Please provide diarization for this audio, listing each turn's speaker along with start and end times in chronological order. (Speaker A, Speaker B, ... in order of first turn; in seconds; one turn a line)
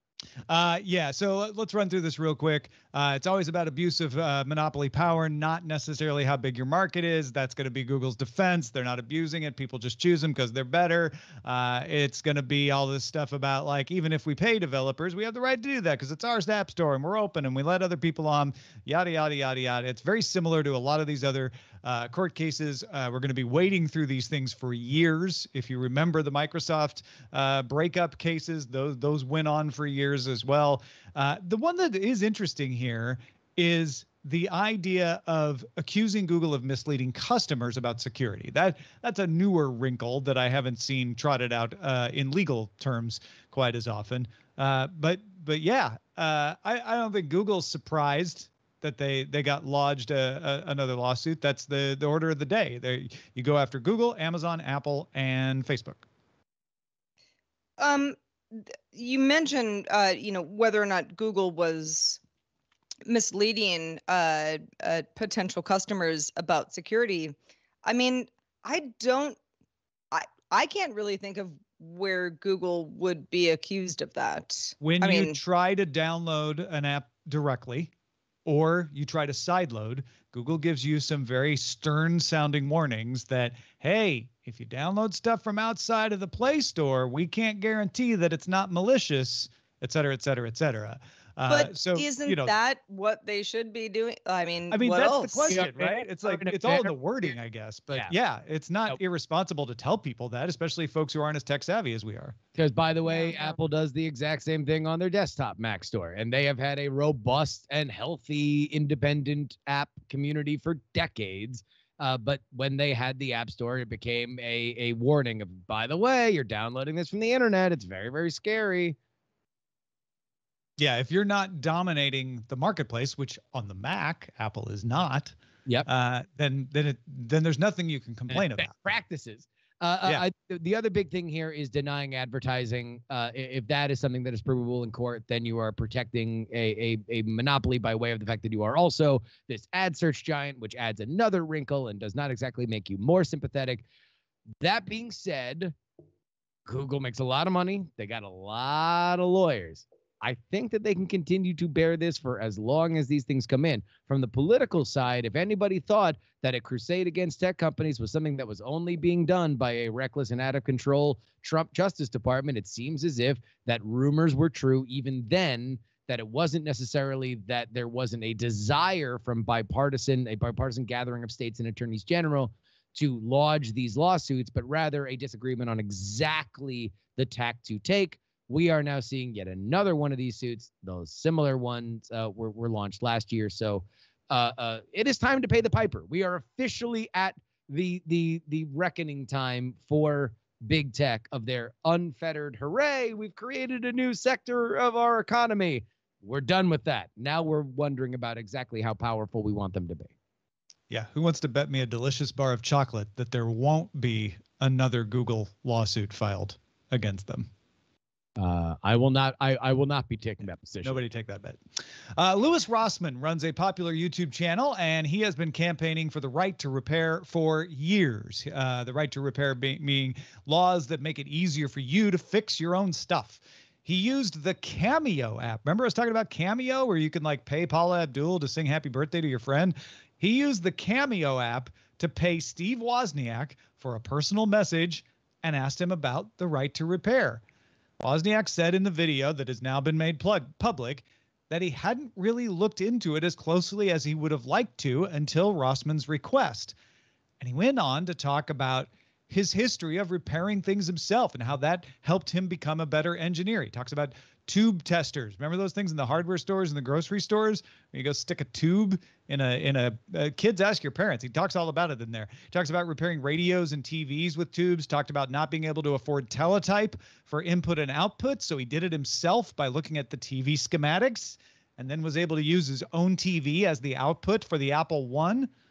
Speaker A: 0.5-56.0
Speaker B: 57.8-62.2
Speaker B: 63.0-69.4
Speaker B: 70.1-75.4
Speaker A: 74.8-77.9
Speaker A: 78.5-92.5
Speaker B: 91.5-95.6
Speaker A: 94.7-102.3
Speaker C: 95.5-96.9
Speaker C: 102.5-119.0
Speaker B: 103.1-103.5
Speaker A: 120.8-125.3
Speaker A: 125.8-128.7
Speaker C: 128.3-143.8
Speaker C: 144.6-145.7
Speaker C: 146.7-200.1
Speaker A: 200.9-207.5
Speaker C: 208.4-211.0
Speaker A: 210.8-211.6
Speaker A: 212.2-237.4
Speaker A: 238.0-246.7
Speaker A: 247.4-275.5